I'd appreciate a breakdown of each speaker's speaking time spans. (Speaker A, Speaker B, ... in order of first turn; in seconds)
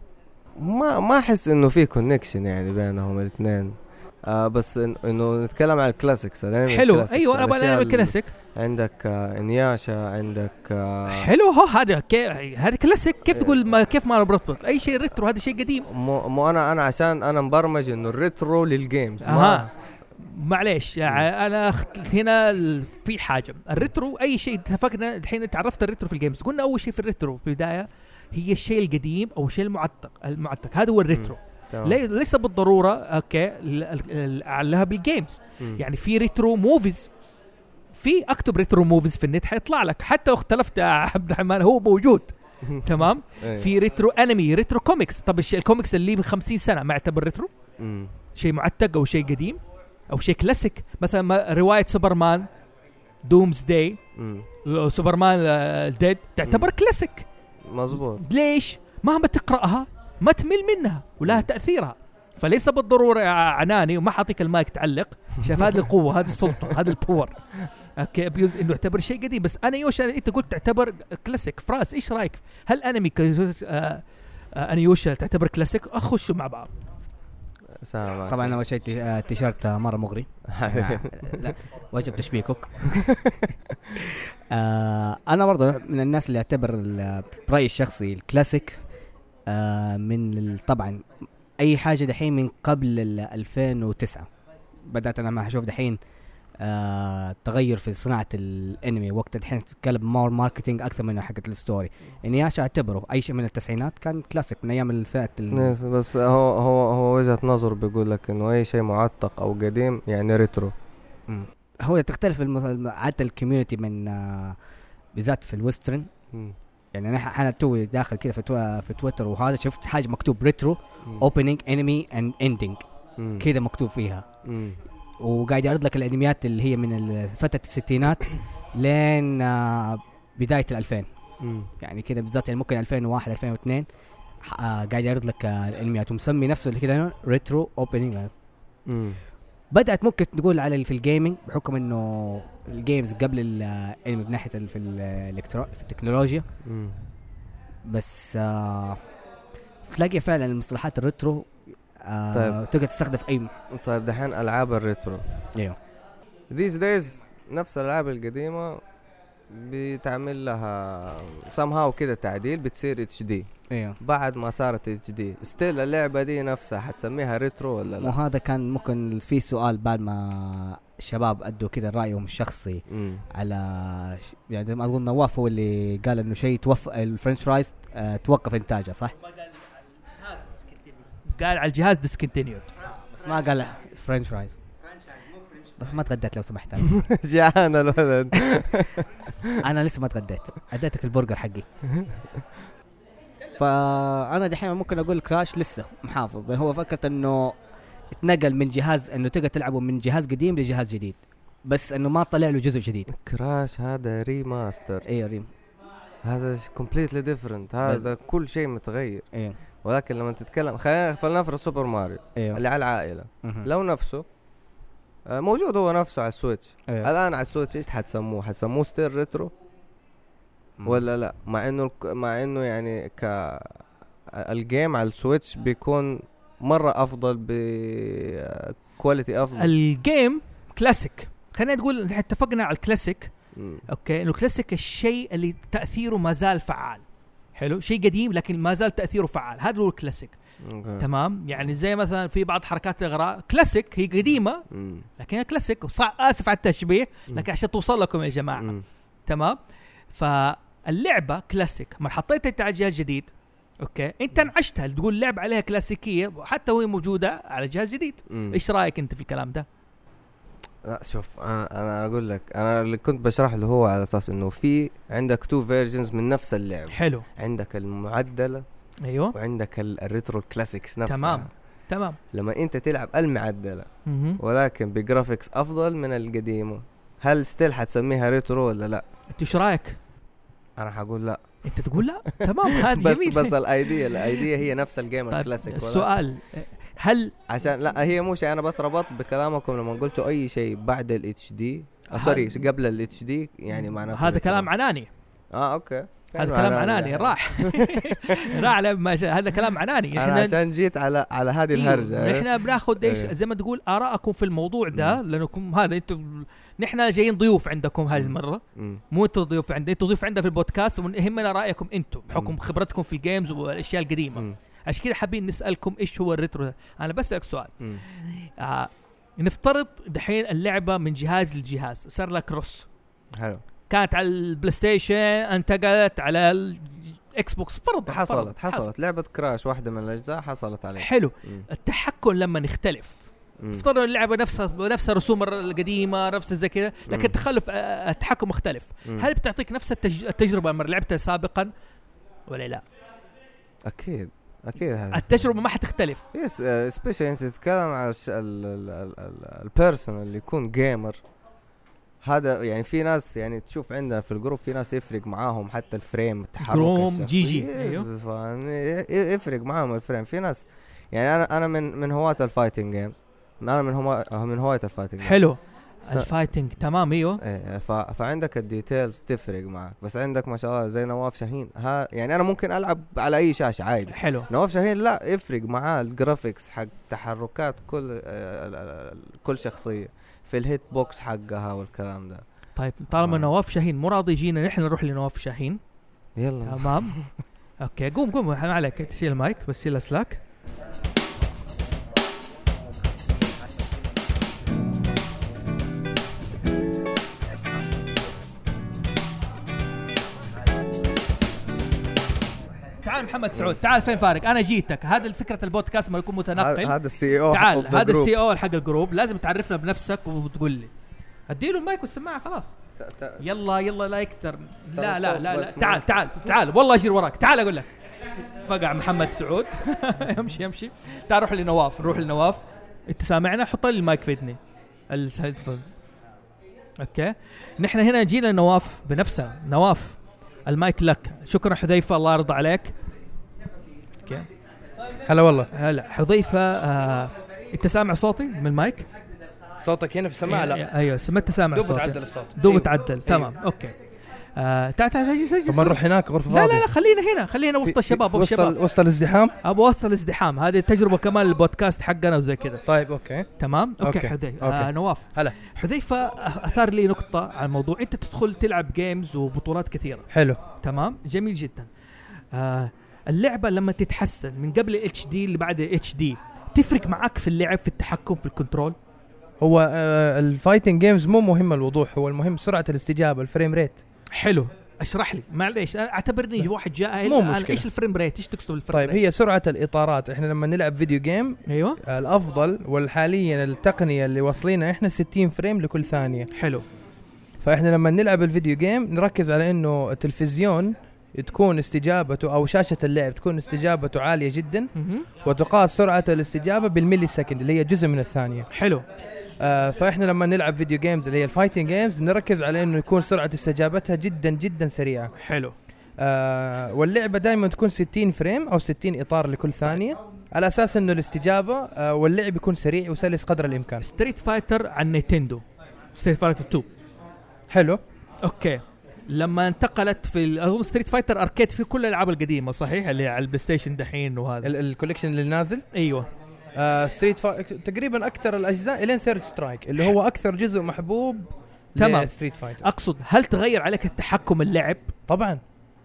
Speaker A: 0.6-11.3, 13.3-13.7, 15.9-19.7, 31.1-32.0, 42.6-43.7, 47.8-48.1, 54.1-54.5, 57.7-58.2, 77.8-78.6, 80.5-81.5, 82.9-83.5, 105.5-110.7, 123.2-123.5, 124.4-124.8, 131.4-131.7, 138.9-139.2, 146.6-147.0, 152.3-152.6, 153.7-155.4, 156.5-158.8, 159.5-163.5, 164.0-168.1, 172.9-173.2, 186.8-189.5, 203.1-205.0, 206.2-209.2, 209.8-214.2, 215.3-219.5, 220.8-223.8, 224.3-229.7, 233.6-233.8, 240.6-241.1, 244.7-245.1, 248.6-248.8, 258.3-258.6, 260.8-268.6, 269.3-271.5, 272.3-279.0, 280.8-281.4, 282.4-286.1, 287.5-294.7, 295.5-298.5, 300.1-303.3, 304.9-305.2, 308.1-309.0, 323.4-323.6, 328.1-331.6, 333.6-333.8, 337.1-337.3, 343.9-345.4, 346.3-351.2, 352.2-365.4, 367.4-382.4, 383.2-383.5, 386.4-387.3, 406.6-408.3, 413.0-413.4, 414.9-416.3
Speaker B: 6.7-8.3, 11.1-15.8, 19.2-19.7, 20.2-37.1, 38.0-47.5, 48.4-49.6, 50.1-52.5, 53.2-54.0, 54.6-57.2, 58.2-67.5, 68.0-74.0, 74.5-76.7, 181.3-182.7, 229.6-233.3, 233.9-237.0, 237.6-240.3, 241.0-244.6, 245.2-248.7, 249.3-249.6, 250.1-253.3, 253.8-259.6, 266.9-267.2, 269.0-269.3, 271.1-272.2, 274.1-274.4, 279.3-280.0, 281.6-283.6, 285.3-287.3, 292.1-292.6, 294.1-295.1, 296.4-300.5, 301.7-322.9, 323.9-328.9, 331.0-341.7, 342.5-342.8, 345.1-346.2, 356.6-358.1, 365.2-367.4, 374.1-374.5, 382.8-385.8, 386.6-387.2, 387.8-390.4, 403.0-406.9, 407.5-410.9, 411.5-412.7, 413.4-417.9, 418.6-424.6, 425.1-425.9, 427.0-432.9, 435.7-439.1, 440.4-443.9, 444.6-448.7, 449.6-452.8, 453.6-461.9, 462.5-468.9, 474.3-479.2, 481.7-482.0, 486.5-486.8, 494.9-495.3, 498.7-499.0, 505.4-505.7, 514.0-516.9, 518.4-524.7, 525.9-526.3, 532.0-535.1
Speaker C: 78.3-83.0, 84.0-88.8, 89.5-91.0, 91.6-94.3, 94.9-96.0, 96.6-105.7, 111.3-114.6, 115.1-116.1, 116.9-122.8, 123.4-124.3, 125.2-131.1, 131.8-133.9, 134.4-138.3, 139.7-146.4, 147.8-149.0, 149.8-151.5, 152.0-153.5, 163.7-164.0, 168.0-179.1, 183.1-184.6, 185.8-187.0, 189.6-191.7, 193.6-197.6, 198.1-203.1, 205.0-205.5
Speaker D: 435.3-435.7, 439.8-440.8, 441.7-443.5, 445.7-446.9, 447.9-449.5, 452.9-453.5, 454.0-455.6, 460.3-460.6, 469.6-474.0, 477.2-477.9, 478.9-486.5, 487.6-498.7, 499.6-505.3, 506.2-514.0, 517.7-518.0, 524.6-525.8, 526.8-532.8, 535.3-535.6